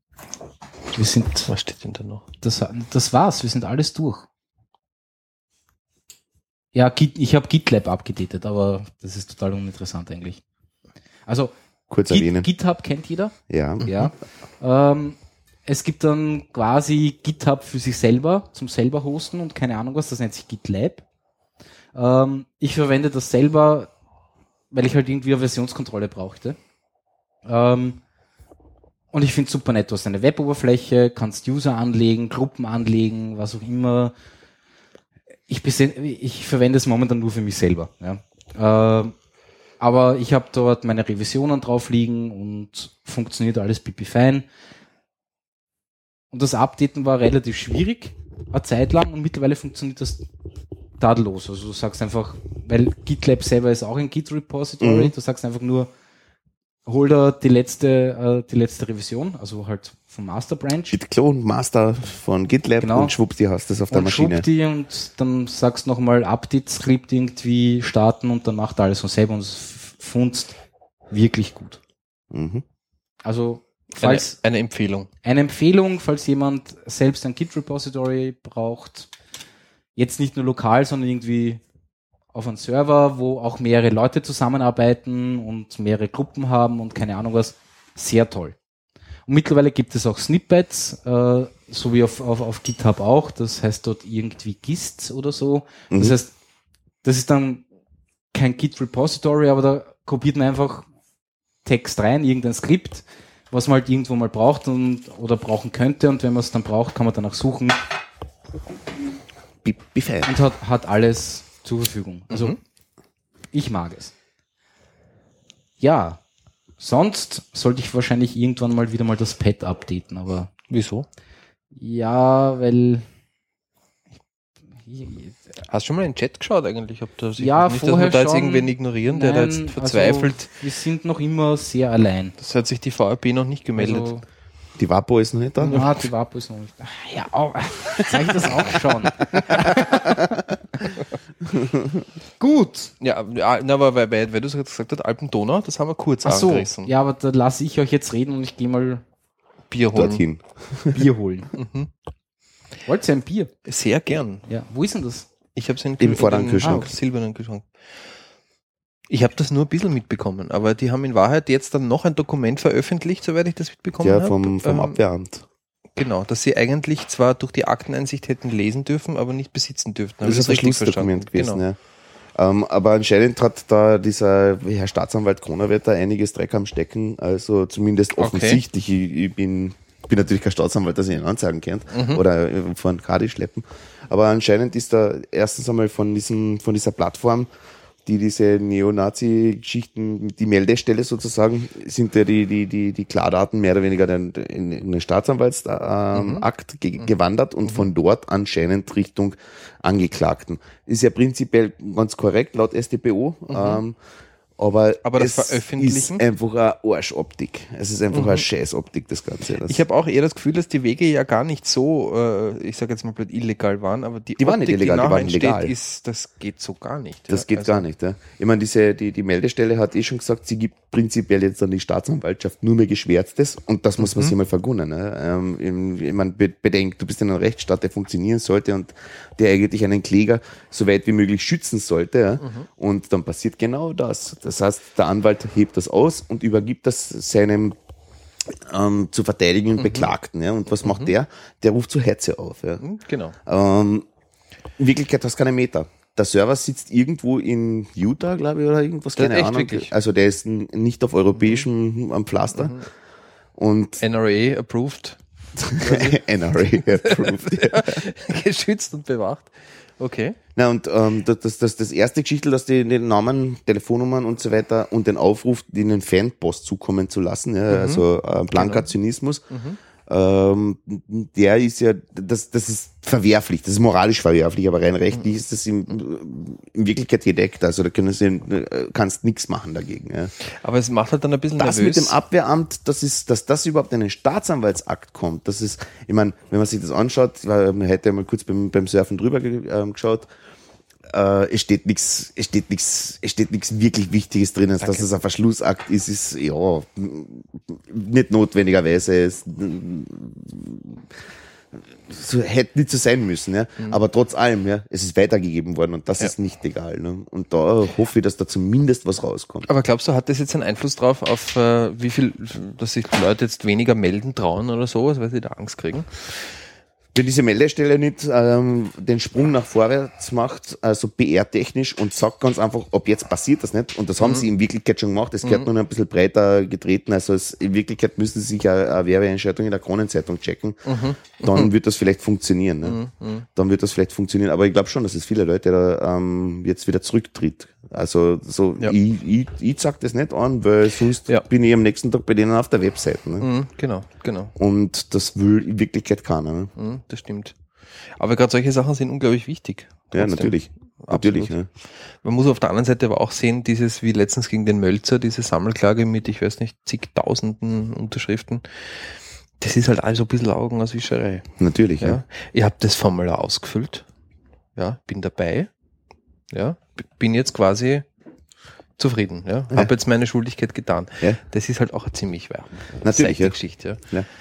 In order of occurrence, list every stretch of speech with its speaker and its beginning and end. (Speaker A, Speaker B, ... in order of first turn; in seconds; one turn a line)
Speaker A: 0.9-1.5
Speaker B: 1.5-2.2
Speaker A: 2.4-4.2
Speaker A: 6.7-10.4
Speaker A: 11.3-11.5
Speaker C: 11.9-12.5
Speaker A: 12.1-21.0
Speaker C: 13.5-13.9
Speaker A: 21.9-23.9
Speaker A: 24.7-26.6
Speaker A: 27.4-28.0
Speaker A: 29.1-34.1
Speaker A: 35.5-39.1
Speaker A: 39.8-44.5
Speaker A: 46.3-50.2
Speaker A: 51.0-55.9
Speaker C: 54.8-55.1
Speaker A: 56.9-61.0
Speaker C: 60.9-64.5
Speaker A: 62.8-63.1
Speaker A: 63.9-70.6
Speaker A: 71.1-71.8
Speaker C: 72.3-72.6
Speaker A: 73.2-74.4
Speaker B: 73.9-75.1
Speaker A: 75.2-79.1
Speaker A: 80.0-81.6
Speaker A: 82.3-88.5
Speaker A: 89.3-96.3
Speaker C: 95.9-96.2
Speaker A: 97.0-97.6
Speaker A: 98.3-100.8
Speaker A: 101.6-107.8
Speaker C: 109.6-110.3
Speaker A: 110.2-112.5
Speaker B: 112.3-112.6
Speaker A: 113.5-114.1
Speaker A: 115.8-116.2
Speaker A: 116.8-120.5
Speaker B: 120.7-121.0
Speaker A: 121.7-123.0
Speaker A: 124.8-125.4
Speaker B: 125.7-130.5
Speaker A: 127.4-132.3
Speaker B: 132.4-134.1
Speaker A: 133.8-134.2
Speaker C: 134.8-135.9
Speaker A: 135.6-140.3
Speaker C: 141.5-142.0
Speaker A: 142.4-142.9
Speaker B: 143.0-146.9
Speaker A: 146.2-149.0
Speaker B: 149.7-150.2
Speaker C: 149.9-151.0
Speaker A: 150.9-151.5
Speaker B: 151.5-151.9
Speaker A: 152.8-153.5
Speaker B: 153.7-154.4
Speaker A: 154.5-155.3
Speaker B: 155.5-157.7
Speaker C: 156.0-156.9
Speaker A: 156.6-156.9
Speaker B: 159.1-165.0
Speaker C: 164.0-165.4
Speaker B: 165.9-171.6
Speaker C: 170.2-171.8
Speaker C: 172.3-187.5
Speaker B: 178.2-178.6
Speaker B: 181.9-182.2
Speaker C: 188.0-204.0
Speaker B: 196.1-196.4
Speaker B: 203.5-203.8
Speaker C: 204.6-209.8
Speaker B: 205.0-206.2
Speaker B: 208.1-208.4
Speaker B: 209.7-217.8
Speaker C: 214.4-215.7
Speaker C: 217.3-237.8
Speaker B: 224.0-224.3
Speaker B: 232.4-232.7
Speaker C: 238.5-242.8
Speaker B: 239.8-240.1
Speaker B: 240.8-241.1
Speaker B: 242.8-243.3
Speaker C: 243.4-244.1
Speaker C: 244.8-252.8
Speaker B: 249.2-249.9
Speaker B: 251.4-251.7
Speaker B: 252.5-252.8
Speaker C: 253.6-254.0
Speaker B: 254.0-255.2
Speaker C: 255.7-258.0
Speaker B: 255.7-260.4
Speaker C: 260.6-269.4
Speaker B: 267.7-268.9
Speaker B: 269.5-269.8
Speaker C: 270.1-280.3
Speaker B: 280.6-282.1
Speaker C: 281.6-290.3
Speaker C: 291.1-301.1
Speaker C: 302.1-309.7
Speaker B: 309.7-316.5
Speaker C: 317.1-333.0
Speaker B: 324.2-324.5
Speaker B: 325.4-325.7
Speaker B: 330.9-331.7
Speaker B: 332.8-333.4
Speaker C: 333.6-343.5
Speaker B: 343.4-344.5
Speaker C: 344.6-346.7
Speaker B: 346.8-347.6
Speaker B: 348.1-351.6
Speaker C: 350.1-351.7
Speaker B: 352.2-358.9
Speaker B: 359.6-361.5
Speaker C: 361.6-362.2
Speaker B: 362.0-364.0
Speaker B: 364.8-365.7
Speaker B: 366.5-368.0
Speaker B: 369.0-374.1
Speaker C: 373.0-374.3